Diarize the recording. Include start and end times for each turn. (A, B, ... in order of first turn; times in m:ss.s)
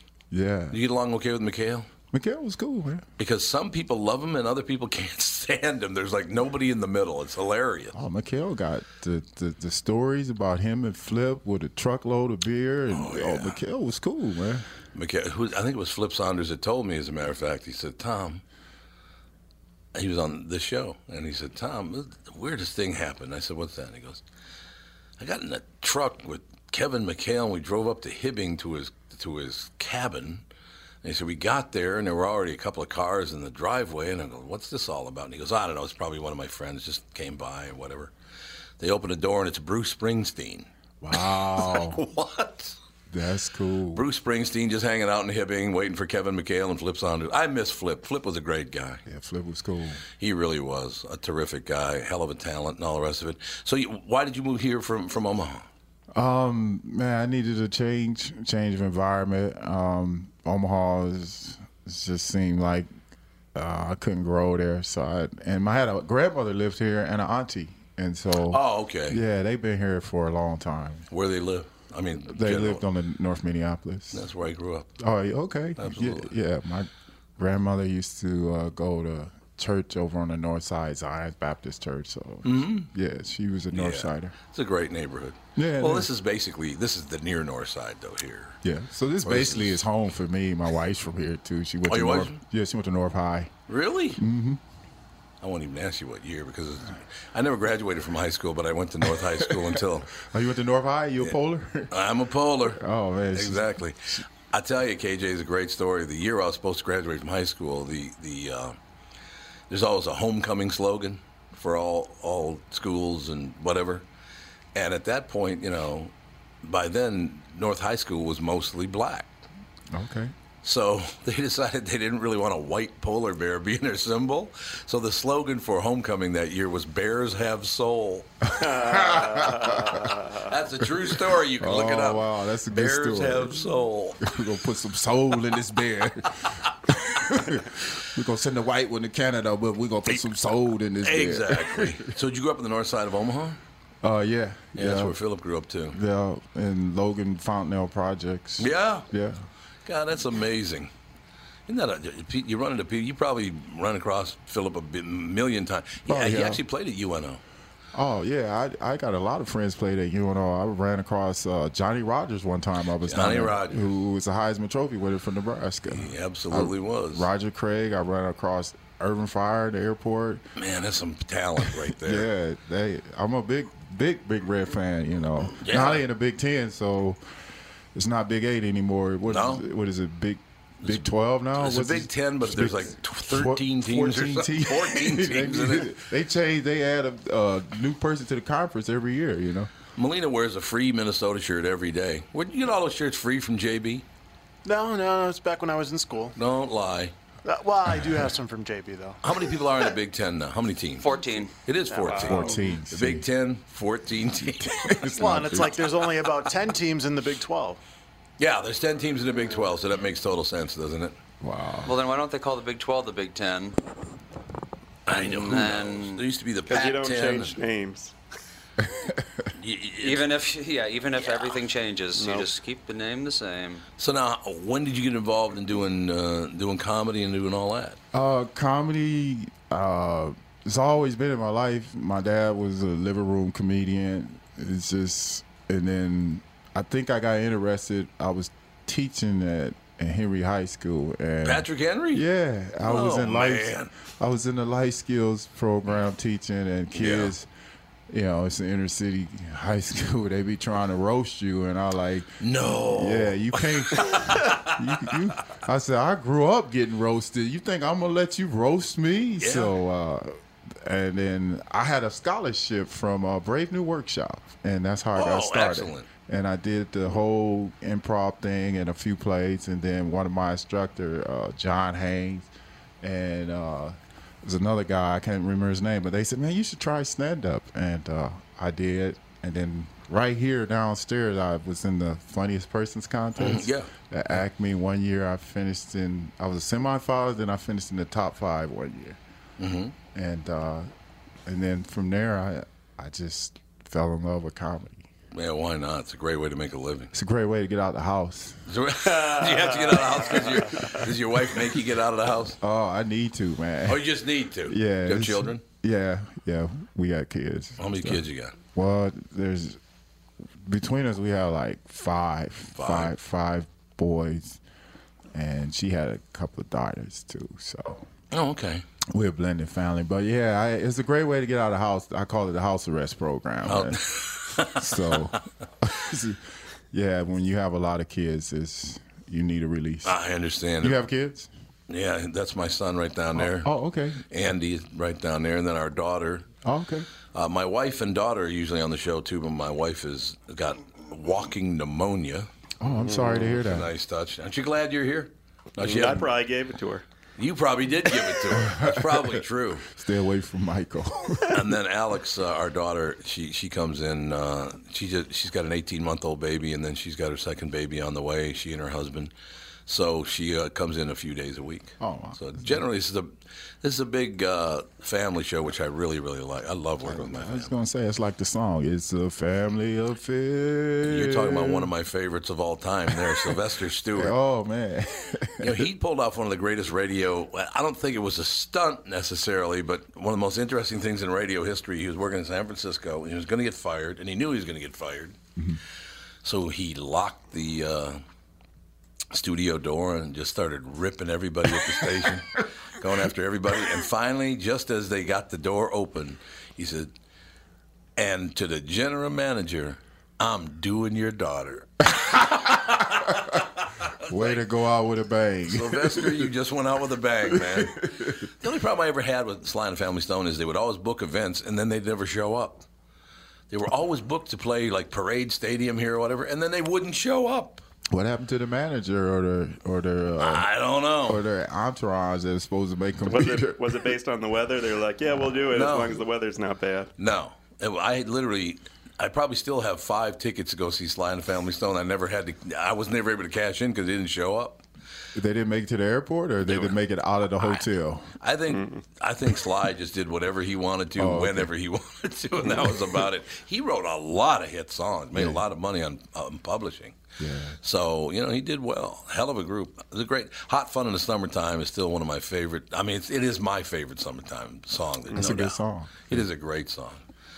0:00.3-0:00.8 A
0:00.7-0:01.9 B
0:02.1-0:03.0 A
0:03.2-0:08.0 B
0:07.9-0:14.6 A
0:12.9-0:13.6 B
0:14.9-0:18.4 B
0:19.9-0:24.2 B
0:25.2-0:30.4 B
0:31.0-0:38.1 B
0:38.8-0:40.7 B
0:41.0-0:42.0 A
0:41.5-0:42.7 B
0:43.1-0:44.0 A
0:43.9-0:49.0 B
0:49.0-0:50.0 A
0:50.2-0:55.6 B
0:56.1-1:02.9 A
1:03.5-1:11.1 A
1:08.5-1:09.2 B
1:11.1-1:12.8 B
1:12.3-1:14.3 A
1:14.1-1:14.9 B
1:15.0-1:24.3 A
1:15.8-1:16.3 B
1:22.4-1:22.9 B
1:23.7-1:28.6 B
1:25.6-1:26.1 A
1:28.6-1:33.5 A
1:29.2-1:29.8 B
1:31.9-1:32.4 B
1:33.7-1:34.2 B
1:34.2-1:34.6 A
1:35.4-1:40.1 B
1:39.3-1:41.9 A
1:41.9-1:42.8 B
1:42.7-1:44.2 A
1:43.3-1:48.8 B
1:49.7-1:54.0 B
1:54.7-1:56.1 B
1:56.6-1:59.3 B
1:59.9-2:00.3 A
2:00.6-2:08.3 B
2:08.4-2:10.2 A
2:08.5-2:10.5 C
2:10.4-2:14.3 B
2:11.5-2:13.7 A
2:14.2-2:22.1 A
2:16.7-2:17.3 B
2:21.0-2:23.6 B
2:24.0-2:25.2 A
2:24.7-2:26.0 B
2:25.9-2:29.4 A
2:28.6-2:29.1 B
2:29.8-2:30.9 B
2:31.7-2:37.4 B
2:36.0-2:36.6 A
2:37.9-2:50.4 A
2:43.0-2:43.8 B
2:45.9-2:47.3 B
2:50.6-2:52.3 B
2:51.9-2:57.2 A
2:55.6-2:56.0 B
2:57.9-3:09.7 A
2:59.3-2:59.6 B
3:00.8-3:05.9 B
3:10.0-3:14.0 B
3:14.6-3:16.3 D
3:16.4-3:17.1 B
3:17.4-3:19.2 D
3:19.2-3:21.1 B
3:21.0-3:21.5 E
3:21.6-3:24.8 B
3:21.9-3:22.6 D
3:22.1-3:22.5 C
3:22.2-3:23.3 A
3:24.6-3:26.1 A
3:25.1-3:27.8 D
3:28.4-3:31.2 B
3:31.4-3:32.0 A
3:31.8-3:33.8 E
3:35.0-3:37.6 B
3:35.2-3:35.6 C
3:35.2-3:36.2 E
3:36.7-3:38.1 C
3:38.8-3:39.2 A
3:39.5-3:40.2 B
3:40.0-3:43.8 E
3:42.2-3:42.5 C
3:44.0-3:48.0 B
3:48.1-4:07.5 A
4:01.4-4:02.2 B
4:02.8-4:03.9 B
4:06.9-4:07.3 B
4:08.1-4:32.5 A
4:12.4-4:15.2 B
4:19.4-4:19.7 B
4:25.1-4:26.1 B
4:33.0-4:49.2 A
4:43.4-4:43.9 B
4:49.6-4:49.9 B
4:50.1-4:50.9 A
4:51.4-4:55.1 A
4:55.3-4:57.1 B
4:57.1-4:58.6 A
4:58.7-5:02.6 B
4:59.1-5:00.9 C
5:02.6-5:04.1 A
5:03.9-5:05.6 B
5:04.6-5:08.2 A
5:07.8-5:08.6 B
5:08.7-5:09.8 A
5:10.6-5:14.6 A
5:12.7-5:13.1 B
5:15.3-5:18.1 A
5:18.3-5:18.8 B
5:19.1-5:24.0 A
5:23.6-5:25.4 B
5:24.6-5:30.1 A
5:30.0-5:31.0 B
5:30.8-5:31.5 A
5:31.9-5:33.7 B
5:33.3-5:34.2 A
5:34.3-5:36.4 B
5:36.6-5:37.1 A
5:37.3-5:42.5 B
5:42.8-5:43.9 A
5:43.0-5:43.3 C
5:43.4-5:46.3 B
5:45.8-5:47.0 C
5:47.4-5:49.9 B
5:48.5-5:51.6 A
5:51.5-5:59.3 B
5:59.8-6:07.7 B
6:02.0-6:02.8 A
6:07.0-6:11.9 A
6:11.0-6:14.3 B
6:13.1-6:13.6 A
6:14.2-6:15.9 A
6:15.6-6:25.4 B
6:26.4-6:28.2 B
6:29.3-6:37.1 B
6:31.8-6:32.1 A
6:38.2-6:44.6 B
6:42.1-6:43.6 A
6:44.3-6:46.5 A
6:45.7-6:52.8 B
6:47.5-6:48.5 A
6:53.7-6:57.8 B
6:58.1-7:00.7 A
7:00.4-7:01.4 B
7:01.2-7:04.1 A
7:03.3-7:07.1 C
7:05.7-7:06.2 B
7:07.2-7:14.8 B
7:15.3-7:18.3 A
7:16.6-7:17.0 B
7:18.4-7:27.2 B
7:18.7-7:19.0 C
7:21.2-7:21.7 A
7:25.3-7:25.6 A
7:27.4-7:27.8 A
7:27.8-7:37.2 B
7:35.3-7:36.5 A